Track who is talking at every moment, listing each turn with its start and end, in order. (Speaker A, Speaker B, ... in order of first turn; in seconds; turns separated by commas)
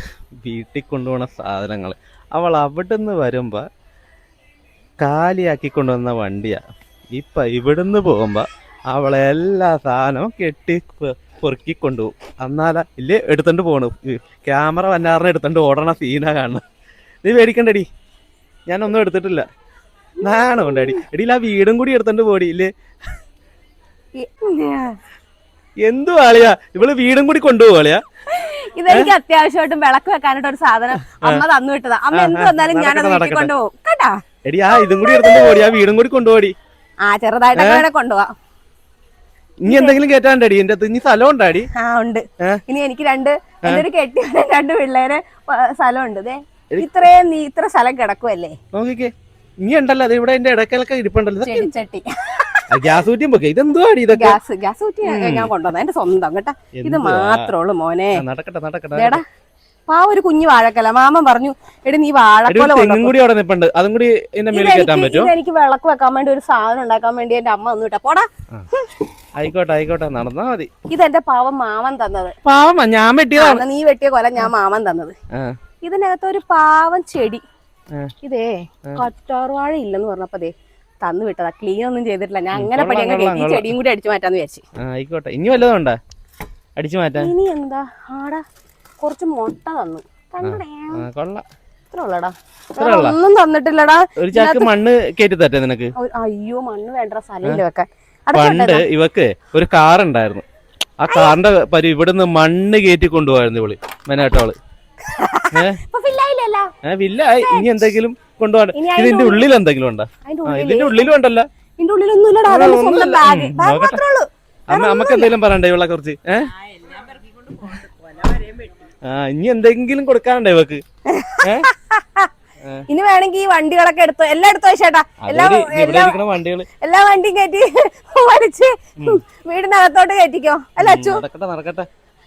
Speaker A: 0.4-3.6, Speaker A: 5.0-6.6, Speaker A: 7.1-16.6, Speaker A: 17.2-17.9, Speaker A: 18.7-19.4, Speaker A: 20.2-22.7, Speaker B: 20.3-21.0, Speaker B: 24.2-25.0, Speaker A: 25.8-28.0, Speaker B: 28.3-35.7, Speaker A: 31.1-31.4, Speaker A: 32.1-33.5, Speaker A: 34.5-36.5, Speaker B: 37.0-38.3, Speaker A: 37.6-37.8, Speaker A: 39.6-41.7, Speaker B: 39.7-40.0, Speaker B: 41.7-48.6, Speaker A: 48.7-49.1, Speaker A: 49.6-51.7, Speaker B: 51.4-52.9, Speaker A: 52.7-54.4, Speaker B: 54.1-58.2, Speaker A: 55.0-55.5, Speaker A: 56.8-57.5, Speaker A: 58.2-59.2, Speaker B: 59.0-59.2, Speaker B: 59.9-63.1, Speaker A: 62.5-65.3, Speaker B: 64.5-68.9, Speaker A: 69.4-70.7, Speaker B: 70.9-72.3, Speaker A: 72.4-73.6, Speaker B: 73.4-75.2, Speaker B: 75.8-77.4, Speaker B: 78.2-84.6, Speaker A: 82.5-83.7, Speaker A: 84.8-86.0, Speaker A: 86.8-87.3, Speaker B: 87.2-88.4, Speaker B: 89.0-91.0, Speaker A: 90.4-91.4, Speaker B: 91.9-94.7, Speaker A: 92.8-93.2, Speaker A: 94.2-95.9, Speaker B: 96.0-98.8, Speaker A: 98.3-100.4, Speaker A: 101.0-104.6, Speaker B: 101.1-101.4, Speaker B: 105.0-106.7, Speaker A: 105.5-105.8, Speaker A: 106.8-111.5, Speaker B: 107.4-107.9, Speaker B: 108.8-109.5, Speaker B: 110.3-111.1, Speaker B: 111.8-115.3, Speaker A: 112.5-114.0, Speaker A: 114.7-116.5, Speaker B: 117.8-118.3, Speaker A: 119.1-120.8, Speaker B: 121.1-122.3, Speaker A: 121.4-121.7, Speaker B: 122.9-126.2, Speaker A: 125.2-126.7, Speaker B: 126.8-131.2, Speaker A: 130.8-131.9